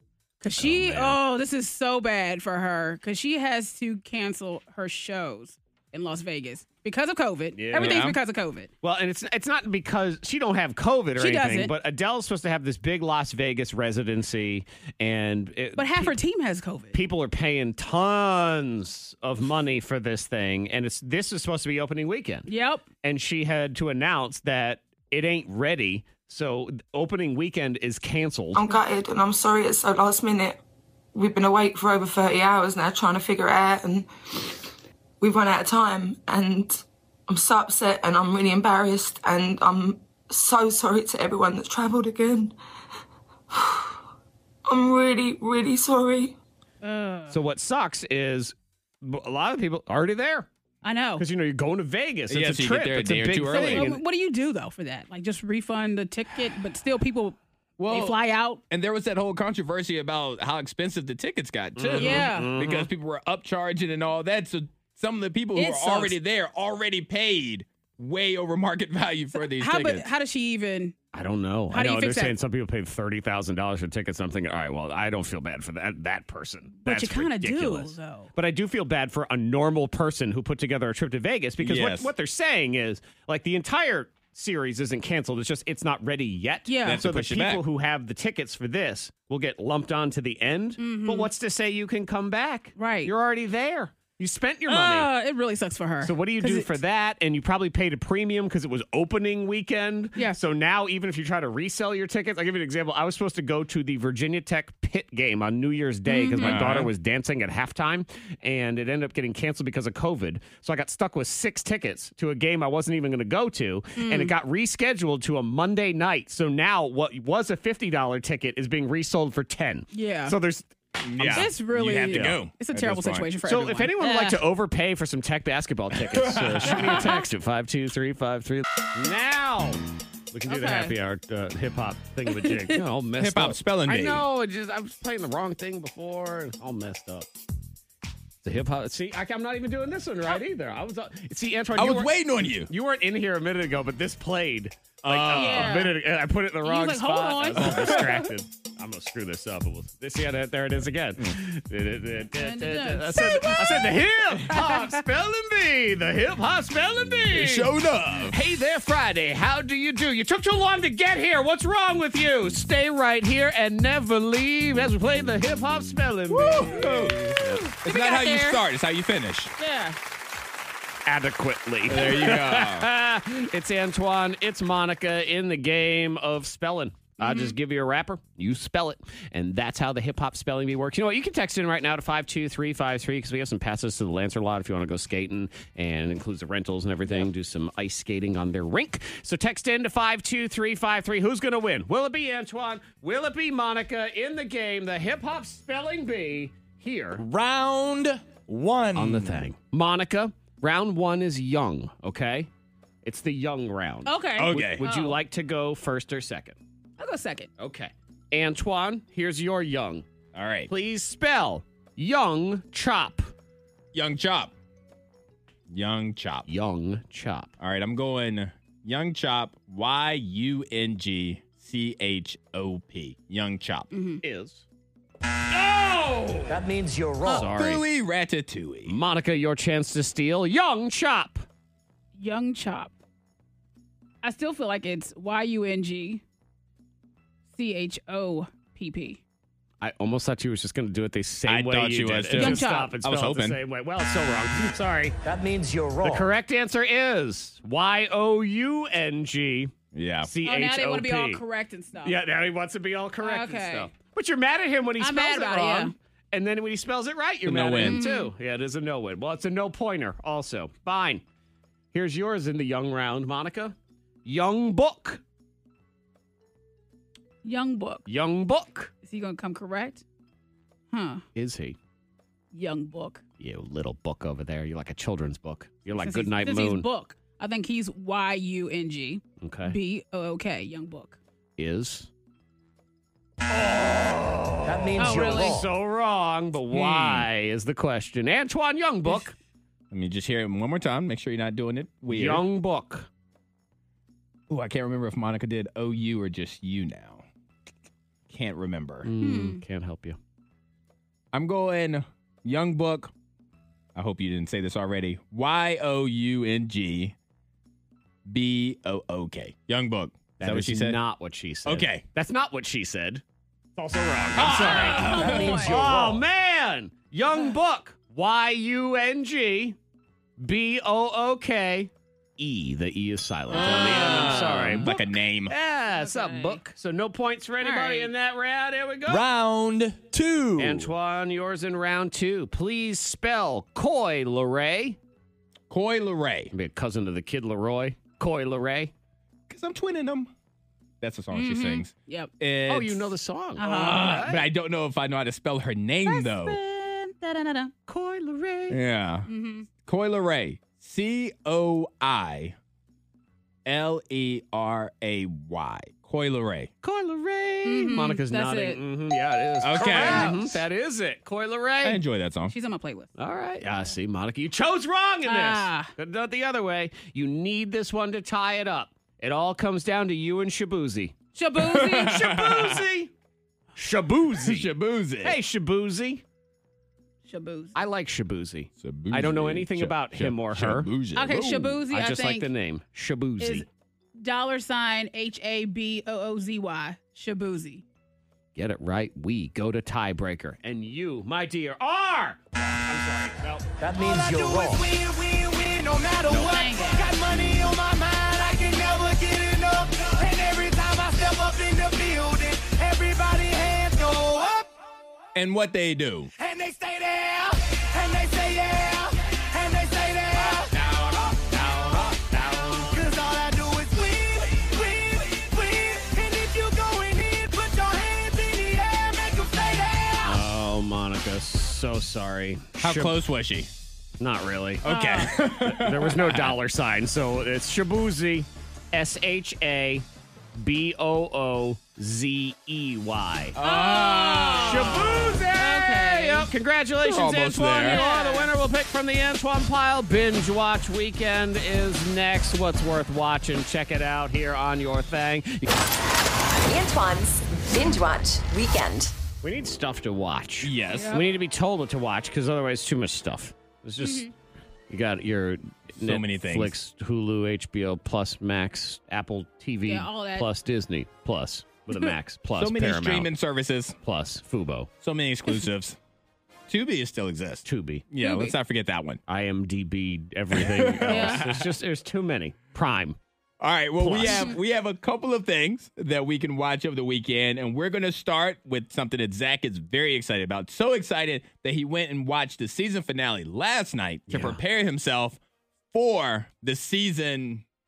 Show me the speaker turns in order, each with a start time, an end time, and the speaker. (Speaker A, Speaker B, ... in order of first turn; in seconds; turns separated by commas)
Speaker A: 0.4-8.7, Speaker B: 0.6-1.2, Speaker B: 7.5-8.0, Speaker C: 7.7-8.2, Speaker B: 8.8-16.2, Speaker A: 11.2-11.7, Speaker A: 15.8-17.0, Speaker B: 16.9-22.5, Speaker A: 22.5-22.8, Speaker B: 23.0-28.7, Speaker D: 28.6-30.6, Speaker D: 31.1-34.6, Speaker D: 35.2-42.6, Speaker D: 43.5-44.0, Speaker D: 44.7-46.4, Speaker A: 46.8-47.4, Speaker B: 47.3-50.5, Speaker A: 50.8-51.2, Speaker B: 51.2-54.0, Speaker C: 52.3-54.0, Speaker A: 53.5-57.4, Speaker C: 57.8-58.2, Speaker A: 57.9-58.6, Speaker C: 58.7-70.1, Speaker B: 61.8-62.9, Speaker A: 62.0-62.5, Speaker A: 65.6-66.2, Speaker A: 69.3-71.0, Speaker B: 71.1-95.1, Speaker A: 71.7-72.4, Speaker A: 76.8-78.3, Speaker C: 81.6-82.1, Speaker A: 86.7-87.0, Speaker C: 86.8-87.6, Speaker A: 90.8-91.3, Speaker A: 92.8-93.1, Speaker A: 94.7-96.7, Speaker B: 96.0-121.5, Speaker A: 106.1-106.6, Speaker C: 106.4-106.9, Speaker A: 114.0-114.3, Speaker A: 119.9-120.4, Speaker C: 121.0-123.3, Speaker A: 121.3-124.4, Speaker B: 122.1-122.4, Speaker B: 123.4-129.8, Speaker C: 126.1-127.0, Speaker A: 126.7-127.2, Speaker B: 130.3-137.3, Speaker A: 130.5-130.9, Speaker A: 132.3-132.8, Speaker C: 133.2-134.3, Speaker B: 138.4-157.8, Speaker C: 141.8-142.7, Speaker C: 145.1-145.8, Speaker A: 145.3-146.0, Speaker A: 146.6-148.2, Speaker C: 147.7-147.9, Speaker A: 152.4-155.0, Speaker C: 157.3-158.4, Speaker B: 158.3-167.7, Speaker C: 166.3-169.5, Speaker A: 166.4-168.6, Speaker A: 169.6-170.0, Speaker B: 171.1-197.2, Speaker C: 171.9-172.9, Speaker A: 177.2-177.6, Speaker C: 197.2-199.4, Speaker B: 198.9-202.5, Speaker B: 203.1-206.6, Speaker A: 204.1-205.2, Speaker C: 204.4-204.8, Speaker A: 207.0-207.5, Speaker B: 207.6-210.1, Speaker C: 210.3-210.7, Speaker B: 210.7-213.3, Speaker C: 213.9-214.5, Speaker C: 215.7-216.5, Speaker B: 216.5-217.5, Speaker C: 217.6-223.9, Speaker A: 223.9-224.2, Speaker B: 224.2-224.6, Speaker B: 225.5-226.7, Speaker B: 227.2-227.9, Speaker C: 227.4-229.0, Speaker B: 228.9-231.4, Speaker A: 232.2-232.9, Speaker A: 234.2-236.2, Speaker A: 237.5-239.2, Speaker B: 239.8-245.2, Speaker C: 241.5-243.6, Speaker A: 242.4-242.9, Speaker B: 246.0-249.7, Speaker C: 249.9-250.3, Speaker B: 250.2-251.4, Speaker A: 250.4-252.2, Speaker B: 252.0-261.2, Speaker A: 253.2-253.9, Speaker A: 255.0-255.9, Speaker C: 257.4-258.0, Speaker A: 257.8-258.3, Speaker B: 261.9-265.2, Speaker A: 267.4-268.1, Speaker B: 268.1-268.9, Speaker A: 269.0-270.0, Speaker A: 270.9-271.2, Speaker B: 271.4-271.8, Speaker A: 272.5-273.2, Speaker B: 273.4-276.9, Speaker A: 275.9-281.2, Speaker B: 279.4-279.8, Speaker B: 281.6-282.1, Speaker B: 283.5-289.4, Speaker A: 285.0-285.6, Speaker C: 286.7-287.3, Speaker C: 289.9-292.4, Speaker B: 292.1-293.1, Speaker C: 294.5-297.2, Speaker C: 298.3-299.1, Speaker B: 299.1-300.2, Speaker A: 299.2-299.6, Speaker C: 301.3-303.1, Speaker C: 303.9-307.1, Speaker C: 308.3-311.0, Speaker B: 310.4-313.2, Speaker C: 311.6-312.1, Speaker B: 313.8-319.8, Speaker C: 314.4-315.8, Speaker A: 314.9-315.8, Speaker E: 315.2-316.1, Speaker B: 320.4-325.0, Speaker C: 323.5-325.5, Speaker A: 323.6-325.0, Speaker B: 325.5-329.2, Speaker A: 325.9-326.6, Speaker A: 327.6-328.1, Speaker C: 329.1-330.9, Speaker B: 330.6-335.0, Speaker C: 335.7-336.5, Speaker B: 336.5-338.9, Speaker C: 339.5-340.3, Speaker C: 341.0-346.6, Speaker A: 341.3-342.3, Speaker B: 342.7-344.5, Speaker A: 343.6-344.2, Speaker A: 346.1-347.7, Speaker B: 347.9-348.8, Speaker C: 348.7-349.3, Speaker A: 349.3-349.7, Speaker C: 349.8-352.6, Speaker C: 353.7-356.7, Speaker B: 356.8-362.0, Speaker A: 357.6-358.8, Speaker C: 359.6-360.6, Speaker A: 359.8-360.4, Speaker C: 361.8-362.5, Speaker A: 362.5-363.1, Speaker B: 363.2-371.1, Speaker A: 365.3-365.9, Speaker A: 371.4-372.3, Speaker C: 371.6-372.9, Speaker B: 371.8-373.1, Speaker B: 373.8-376.2, Speaker C: 374.4-375.4, Speaker A: 377.3-377.8, Speaker B: 377.8-380.9, Speaker C: 378.8-381.8, Speaker A: 381.1-382.5, Speaker B: 381.9-383.7, Speaker A: 383.4-383.7, Speaker A: 384.2-387.8, Speaker B: 388.6-393.7, Speaker E: 393.8-404.7, Speaker A: 396.4-397.1, Speaker C: 405.4-406.3, Speaker E: 406.4-420.4, Speaker B: 420.2-423.2, Speaker C: 422.8-423.7, Speaker B: 424.2-430.1, Speaker A: 424.8-425.3, Speaker C: 424.8-426.6, Speaker B: 430.6-433.6, Speaker C: 433.6-435.3, Speaker A: 433.6-436.5, Speaker B: 434.5-445.7, Speaker C: 437.0-438.0, Speaker A: 437.8-438.5, Speaker F: 446.7-449.1, Speaker B: 449.4-454.3, Speaker C: 450.6-451.2, Speaker A: 450.9-451.3, Speaker A: 454.0-454.3, Speaker B: 454.9-463.3, Speaker C: 456.0-456.8, Speaker A: 459.9-460.5, Speaker C: 462.6-464.0, Speaker B: 464.0-464.9, Speaker C: 465.0-466.0, Speaker C: 466.7-469.2, Speaker B: 467.7-468.1, Speaker A: 468.2-468.6, Speaker B: 469.3-473.2, Speaker C: 470.5-471.7, Speaker A: 471.1-471.4, Speaker C: 473.6-485.4, Speaker B: 474.0-474.5, Speaker B: 484.3-484.6, Speaker C: 485.9-487.6